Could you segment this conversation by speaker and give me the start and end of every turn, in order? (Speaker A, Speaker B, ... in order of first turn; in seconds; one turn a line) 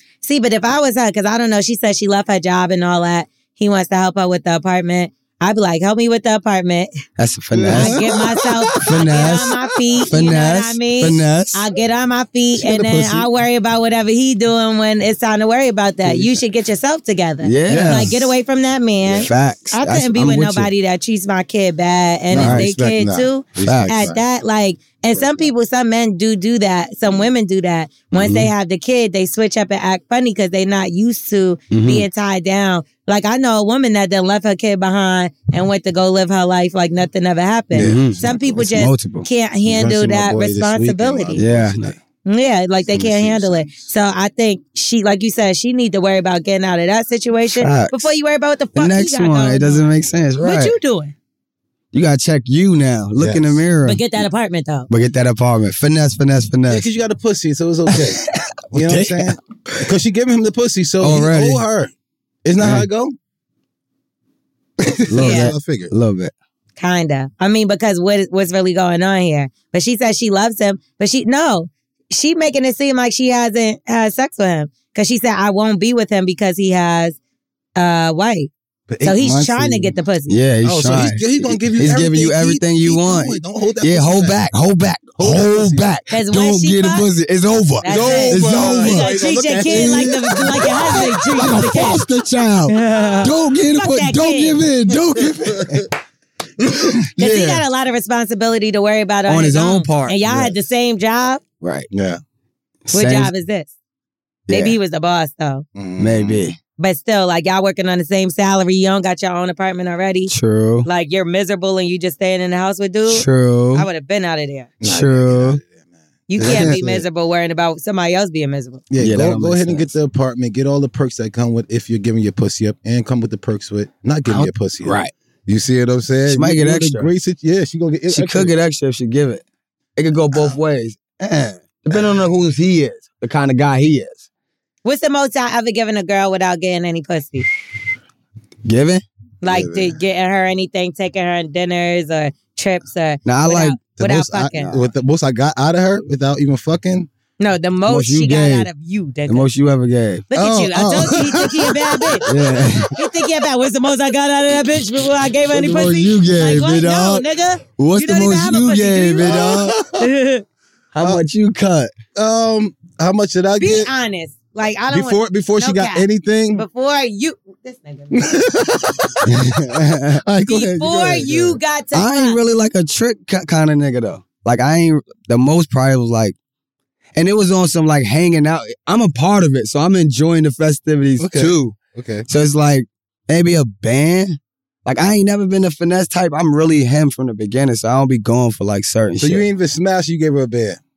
Speaker A: 0.2-6.9
Speaker B: 7.2-8.0
Speaker C: 7.5-9.4
Speaker A: 7.7-41.4
Speaker B: 8.7-11.6
Speaker C: 12.6-13.3
Speaker B: 17.4-18.1
Speaker C: 17.7-18.2
Speaker B: 19.1-20.7
Speaker C: 22.3-24.2
Speaker B: 22.3-22.7
Speaker B: 23.6-24.1
Speaker C: 25.1-25.5
Speaker B: 28.1-28.5
Speaker B: 31.7-32.1
Speaker C: 37.7-38.7
Speaker B: 37.8-39.3
Speaker C: 39.7-42.0
Speaker B: 41.4-41.9
Speaker A: 42.2-49.9
Speaker C: 42.9-43.9
Speaker B: 47.6-48.0
Speaker B: 48.8-50.7
Speaker A: 50.4-51.1
Speaker B: 51.9-54.0
Speaker C: 53.2-53.6
Speaker A: 53.9-54.9
Speaker B: 54.9-56.9
Speaker C: 56.7-61.9
Speaker B: 57.9-59.8
Speaker B: 61.0-61.6
Speaker C: 62.5-63.1
Speaker B: 62.6-62.9
Speaker C: 64.8-65.9
Speaker B: 65.1-66.3
Speaker A: 65.2-65.5
Speaker A: 66.8-77.2
Speaker A: 77.8-78.5
Speaker C: 78.9-79.9
Speaker A: 79.0-80.3
Speaker B: 80.3-95.9
Speaker C: 80.6-84.4
Speaker C: 85.2-85.9
Speaker A: 86.1-87.1
Speaker A: 87.8-92.0
Speaker C: 87.8-91.7
Speaker A: 92.7-94.6
Speaker C: 95.2-95.9
Speaker B: 97.0-97.6
Speaker A: 97.2-101.4
Speaker B: 99.3-100.2
Speaker C: 100.3-100.5
Speaker B: 101.6-101.9
Speaker C: 101.9-102.2
Speaker B: 102.9-103.3
Speaker A: 102.9-103.7
Speaker B: 104.5-104.8
Speaker A: 104.5-105.7
Speaker C: 105.8-106.5
Speaker B: 106.0-106.6
Speaker A: 106.8-110.3
Speaker B: 110.3-110.9
Speaker A: 110.8-114.7
Speaker B: 113.1-113.9
Speaker C: 114.8-115.8
Speaker B: 114.8-115.6
Speaker A: 116.3-118.8
Speaker C: 116.4-117.0
Speaker B: 116.4-116.8
Speaker C: 118.9-128.5
Speaker B: 119.0-119.9
Speaker B: 124.3-125.1
Speaker B: 126.3-127.1
Speaker B: 128.1-129.4
Speaker B: 130.0-134.2
Speaker C: 130.3-130.6
Speaker C: 131.9-132.2
Speaker A: 134.8-137.5
Speaker B: 138.7-139.0
Speaker A: 139.4-144.7
Speaker C: 139.5-140.0
Speaker B: 143.2-143.8
Speaker C: 144.0-147.1
Speaker B: 144.5-144.9
Speaker A: 147.4-149.5
Speaker B: 147.9-148.7
Speaker B: 149.3-150.3
Speaker A: 150.3-152.3
Speaker C: 150.3-152.9
Speaker B: 152.2-152.9
Speaker A: 152.9-160.4
Speaker B: 155.5-157.2
Speaker B: 157.8-159.8
Speaker C: 159.2-160.1
Speaker B: 160.9-161.9
Speaker C: 162.2-163.9
Speaker A: 163.6-168.3
Speaker C: 164.9-166.7
Speaker C: 168.1-171.6
Speaker B: 169.2-170.2
Speaker A: 170.5-172.4
Speaker B: 171.9-176.3
Speaker B: 177.2-181.8
Speaker C: 181.2-182.3
Speaker B: 182.3-189.5
Speaker C: 189.2-190.8